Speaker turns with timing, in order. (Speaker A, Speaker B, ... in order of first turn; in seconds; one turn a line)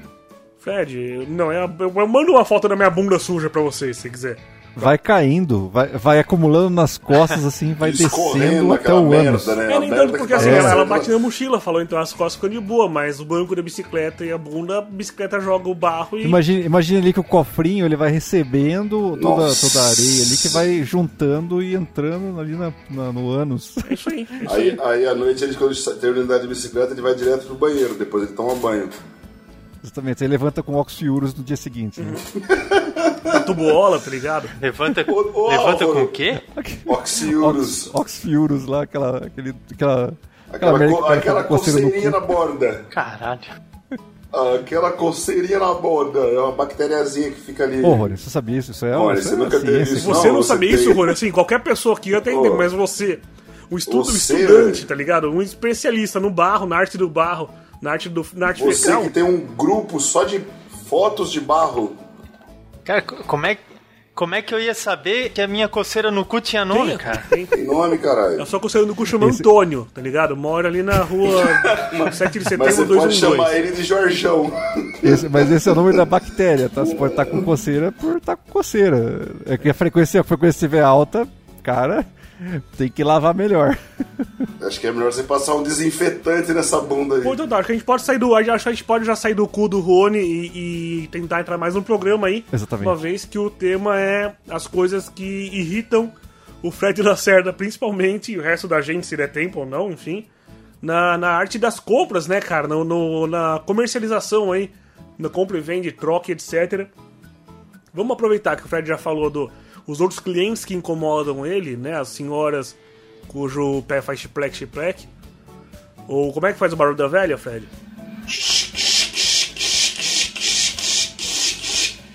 Speaker A: 0.6-4.9
Speaker B: 4.8-9.6
Speaker C: 7.8-11.1
Speaker A: 9.7-16.4
Speaker B: 10.4-10.8
Speaker B: 16.2-24.0
Speaker C: 19.1-20.6
Speaker A: 23.8-24.8
Speaker C: 24.4-28.9
Speaker B: 29.8-32.2
Speaker A: 32.0-32.2
Speaker C: 32.4-33.4
Speaker A: 33.3-34.5
Speaker D: 34.6-36.4
Speaker C: 35.0-36.1
Speaker B: 36.5-42.3
Speaker C: 36.9-37.9
Speaker C: 40.5-42.8
Speaker D: 42.9-43.5
Speaker C: 44.3-48.1
Speaker B: 47.8-50.4
Speaker C: 48.9-51.1
Speaker A: 50.0-59.1
Speaker C: 52.2-52.7
Speaker C: 53.9-54.9
Speaker C: 58.5-62.0
Speaker D: 62.8-63.6
Speaker D: 64.1-67.2
Speaker A: 66.7-67.5
Speaker C: 67.5-68.4
Speaker A: 68.4-73.5
Speaker B: 69.2-69.5
Speaker C: 71.6-76.0
Speaker B: 75.0-84.5
Speaker C: 76.8-77.4
Speaker C: 84.6-87.4
Speaker A: 87.2-100.3
Speaker B: 92.5-93.0
Speaker A: 100.8-106.9
Speaker A: 107.9-112.8
Speaker A: 113.3-115.1
Speaker A: 116.1-117.7
Speaker C: 118.3-121.9